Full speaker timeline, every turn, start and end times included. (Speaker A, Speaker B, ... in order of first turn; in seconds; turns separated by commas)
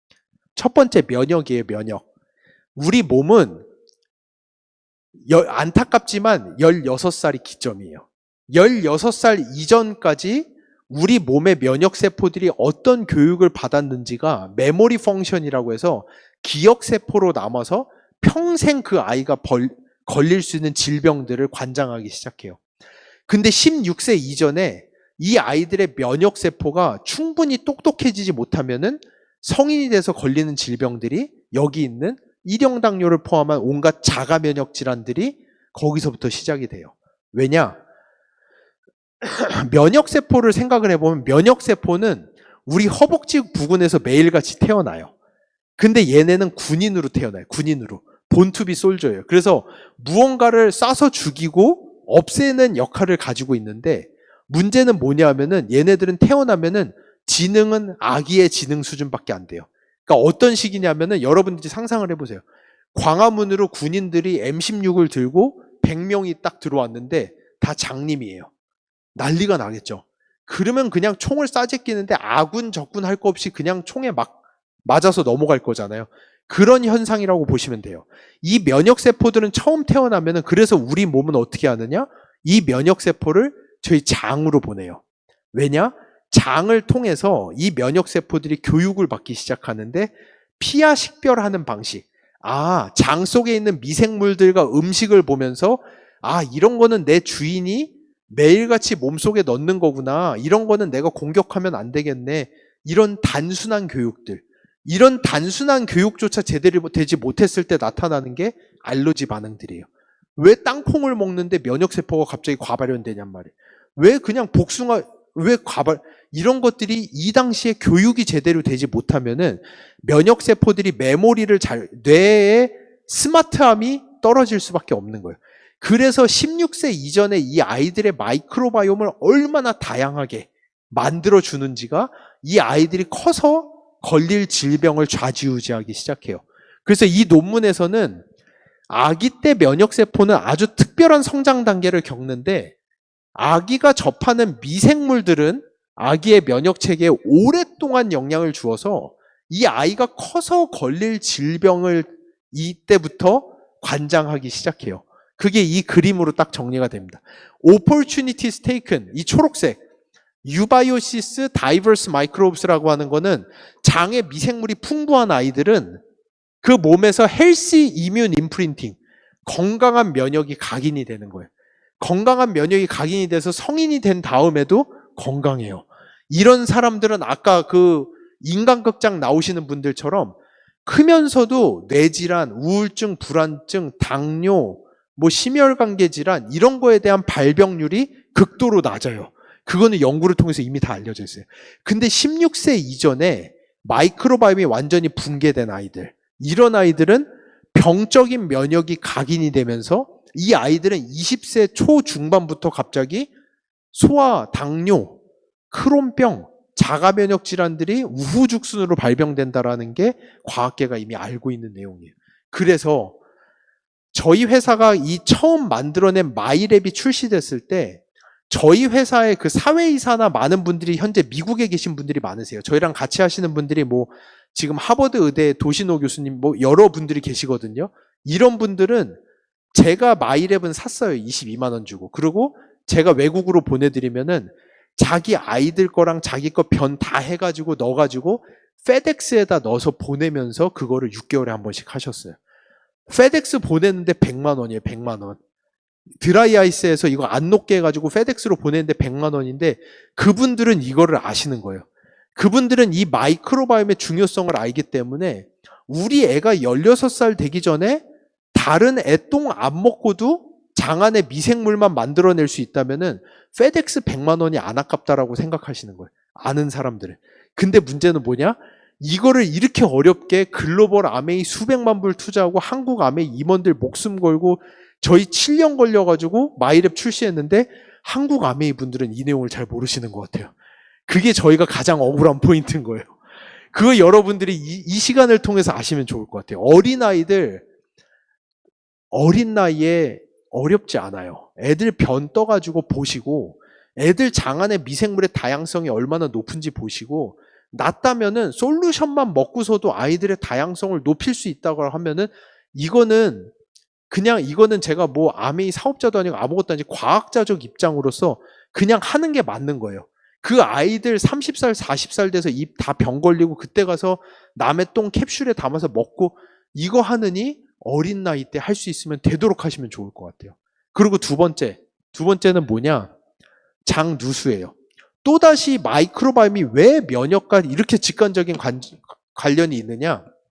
Speaker A: 0.6-2.0, Speaker A: 2.8-3.7, Speaker A: 5.3-22.6, Speaker A: 23.3-37.8, Speaker A: 39.2-45.1, Speaker A: 45.8-62.4, Speaker A: 62.9-68.5, Speaker A: 69.2-85.0, Speaker A: 85.5-138.2, Speaker A: 138.9-142.7, Speaker A: 143.3-159.8, Speaker A: 160.4-166.0, Speaker A: 166.6-203.3, Speaker A: 203.9-205.2, Speaker A: 205.7-213.2, Speaker A: 214.1-229.2, Speaker A: 229.7-242.4, Speaker A: 243.1-245.4, Speaker A: 246.2-251.8, Speaker A: 252.4-280.5, Speaker A: 281.1-283.1, Speaker A: 283.7-287.6, Speaker A: 289.1-303.5, Speaker A: 304.1-323.1, Speaker A: 323.9-324.7, Speaker A: 325.2-330.2